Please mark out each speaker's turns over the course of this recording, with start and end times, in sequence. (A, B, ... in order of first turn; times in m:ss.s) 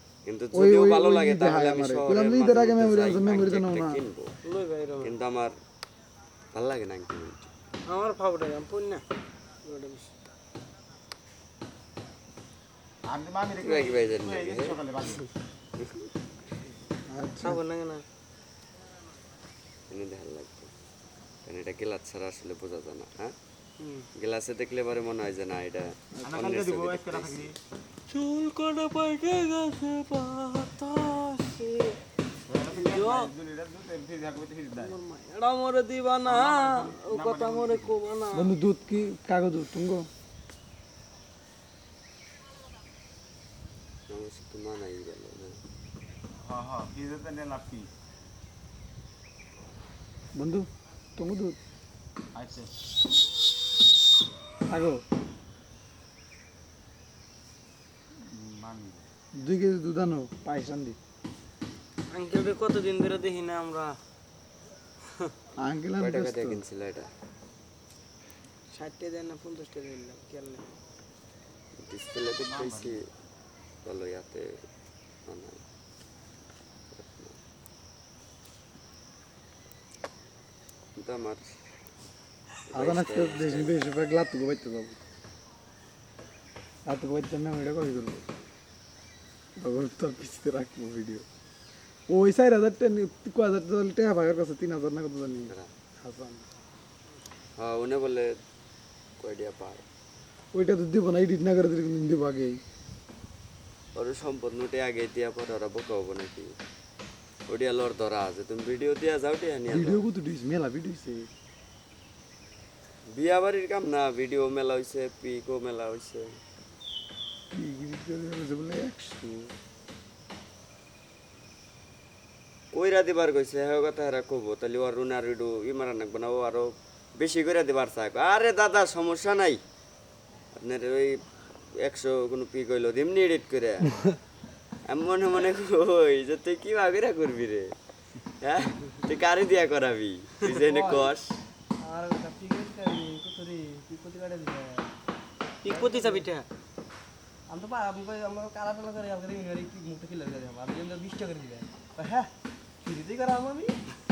0:00.3-0:04.3 A
0:00.5-0:04.0 B
0:04.4-0:05.2 C
0:05.0-0:05.6 A
0:06.5-0:07.5 A
0:07.9-0:09.0 C
0:09.6-0:10.1 C
0:13.0-0:15.3 D
0:13.6-0:14.8 A
0:17.1-0:17.6 B
0:17.4-0:18.0 C
0:19.9-0:20.7 A
0:21.4-0:23.4 A
0:23.8-0:24.1 C
0:24.2-0:27.5 A
0:26.2-0:27.6 D
0:28.1-0:32.0 C
0:32.5-0:35.0 D
0:32.8-0:33.3 C
0:34.8-0:38.5 C
0:36.2-0:38.0 D
0:38.3-0:40.1 B
0:44.1-0:45.6 A
0:46.4-0:47.9 D
0:50.4-0:51.6 B
0:52.4-0:52.8 D
0:54.7-0:55.0 B
0:58.3-0:59.0 D
0:59.4-1:01.0 B
1:02.1-1:04.0 C
1:05.6-1:06.6 B
1:06.0-1:07.1 A
1:08.7-1:10.7 C
1:11.8-1:13.0 A
1:12.4-1:13.0 D
1:13.8-1:14.5 A
1:15.3-1:15.6 A
1:16.9-1:17.4 A
1:21.0-1:21.6 A
1:22.7-1:23.8 A
1:22.7-1:25.0 B
1:26.9-1:28.2 B
1:29.6-1:31.2 B
1:32.1-1:36.5 B
1:37.6-1:38.3 A
1:39.2-1:39.8 A
1:40.5-1:42.6 B
1:44.0-1:46.5 A
1:47.5-1:50.0 A
1:49.7-1:51.3 B
1:53.1-1:56.3 A
1:57.5-1:59.5 B
2:02.7-2:09.6 A
2:10.6-2:13.9 A
2:14.8-2:17.8 A
2:18.4-2:21.4 A
2:20.4-2:21.1 E
2:21.8-2:24.9 E
2:25.6-2:26.4 C
2:25.6-2:26.3 E
2:27.5-2:32.3 E
2:32.8-2:33.8 E